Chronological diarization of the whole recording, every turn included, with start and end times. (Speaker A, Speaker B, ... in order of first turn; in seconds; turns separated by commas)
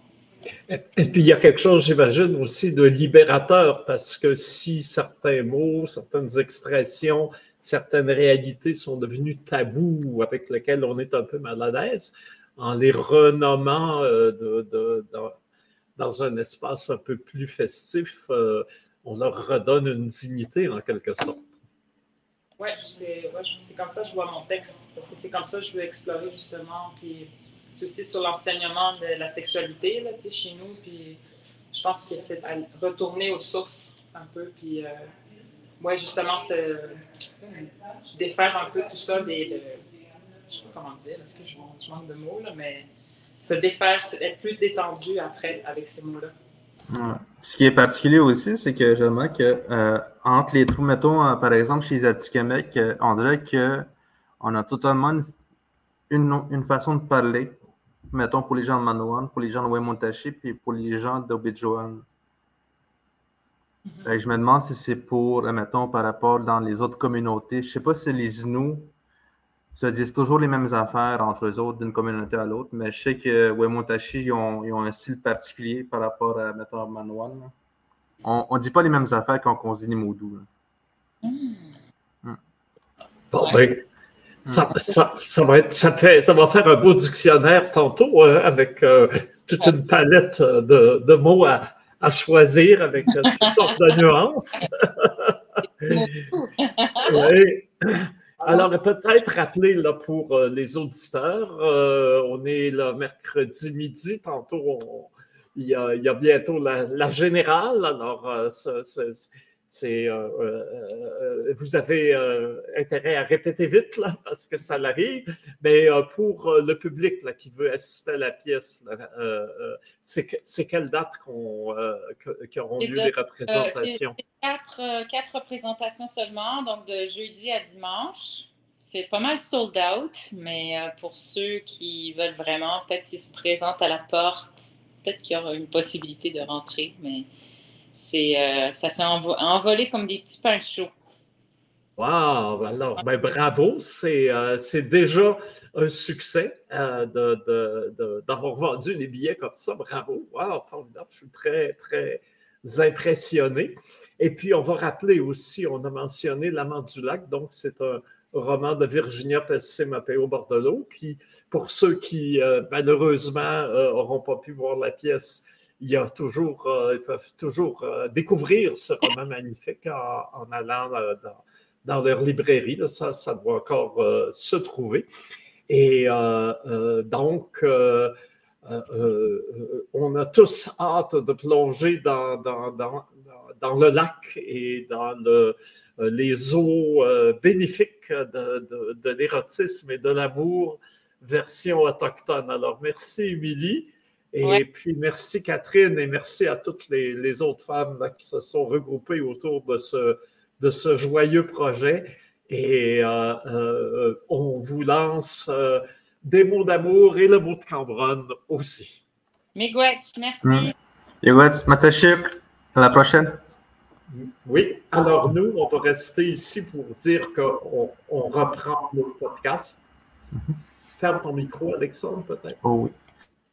Speaker A: 0.7-15.3, Speaker A: 16.0-21.5, Speaker B: 22.6-31.2, Speaker B: 31.7-35.1, Speaker B: 35.8-39.8, Speaker B: 40.5-42.9, Speaker B: 43.4-46.3, Speaker C: 46.9-53.9, Speaker C: 54.4-55.3, Speaker C: 56.1-57.6, Speaker C: 58.1-62.0, Speaker C: 64.0-68.9, Speaker C: 69.7-77.5, Speaker C: 78.2-80.5, Speaker D: 81.2-81.7, Speaker A: 83.3-83.8, Speaker A: 84.5-96.1, Speaker D: 93.2-93.7, Speaker D: 95.9-97.3, Speaker A: 97.0-124.2, Speaker D: 122.8-137.3, Speaker D: 137.9-140.9, Speaker A: 142.0-175.1, Speaker A: 175.7-209.0, Speaker D: 209.6-210.7, Speaker C: 210.4-213.4, Speaker A: 214.1-219.8, Speaker A: 221.0-222.6, Speaker C: 222.6-222.9